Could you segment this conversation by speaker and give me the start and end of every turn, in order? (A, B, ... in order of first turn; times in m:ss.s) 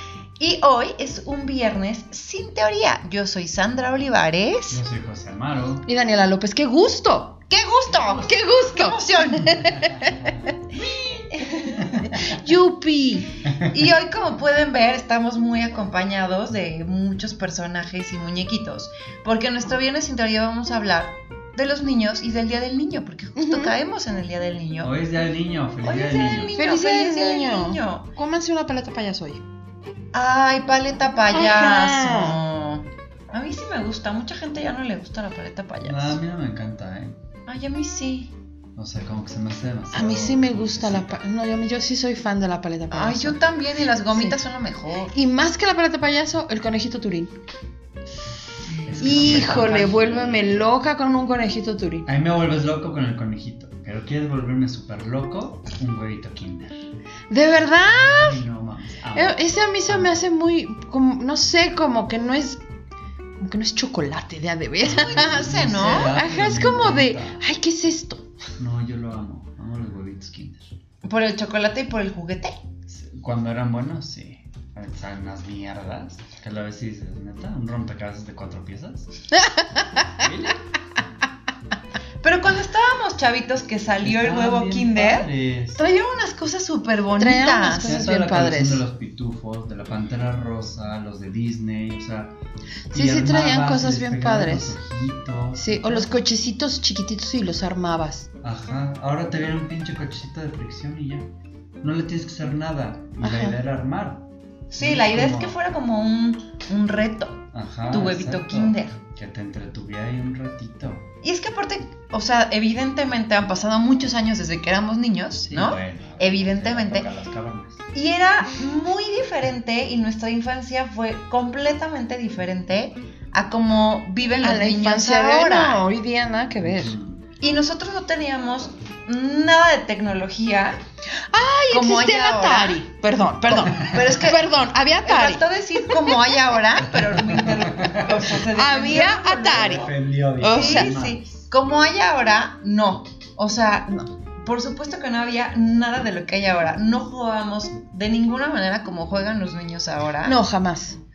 0:00.4-0:04.8 A
0:04.7-0:05.9 B
0:05.9-0:07.4 C
0:07.5-0:09.7 A
0:07.9-0:08.3 B
0:08.2-0:10.5 C
0:09.7-0:10.4 B
0:10.7-0:12.1 A
0:12.0-0:13.3 C
0:13.6-0:24.9 A
0:23.4-0:23.7 C
0:24.8-0:26.6 B
0:25.8-0:28.1 A
0:26.6-0:29.4 C
0:30.1-0:36.2 A
0:31.3-0:32.4 C
0:35.8-0:37.2 B
0:37.5-0:38.3 A
0:38.8-0:41.2 B
0:39.9-0:43.5 C
0:42.9-0:45.2 A
0:45.1-0:47.3 C
0:48.7-0:50.1 A
0:48.8-0:50.7 B
0:49.0-0:52.1 C
0:52.1-0:56.9 B
0:57.3-0:58.4 C
0:57.9-1:00.2 B
0:59.1-1:02.6 C
1:03.4-1:08.2 C
1:04.9-1:07.4 B
1:04.9-1:06.2 A
1:08.6-1:10.8 B
1:11.0-1:12.6 A
1:12.9-1:19.1 B
1:19.4-1:19.9 C
1:20.0-1:20.6 B
1:22.2-1:28.0 A
1:24.0-1:25.8 B
1:27.2-1:28.8 C
1:27.7-1:32.4 B
1:32.9-1:36.1 B
1:32.9-1:34.7 C
1:35.6-1:38.3 C
1:38.4-1:41.3 B
1:41.8-1:45.6 B
1:43.2-1:43.6 C
1:44.7-1:49.0 A
1:47.5-1:51.1 B
1:51.2-1:57.1 A
1:55.5-1:57.8 B
1:57.9-2:05.8 A
2:04.4-2:07.0 C
2:06.6-2:07.2 B
2:07.4-2:10.8 A
2:11.3-2:16.2 C
2:11.7-2:12.8 A
2:13.5-2:14.5 A
2:15.0-2:20.0 A
2:16.9-2:18.3 B
2:18.5-2:19.9 C
2:19.5-2:21.2 B
2:20.4-2:20.9 C
2:20.5-2:30.4 A
2:30.2-2:31.0 C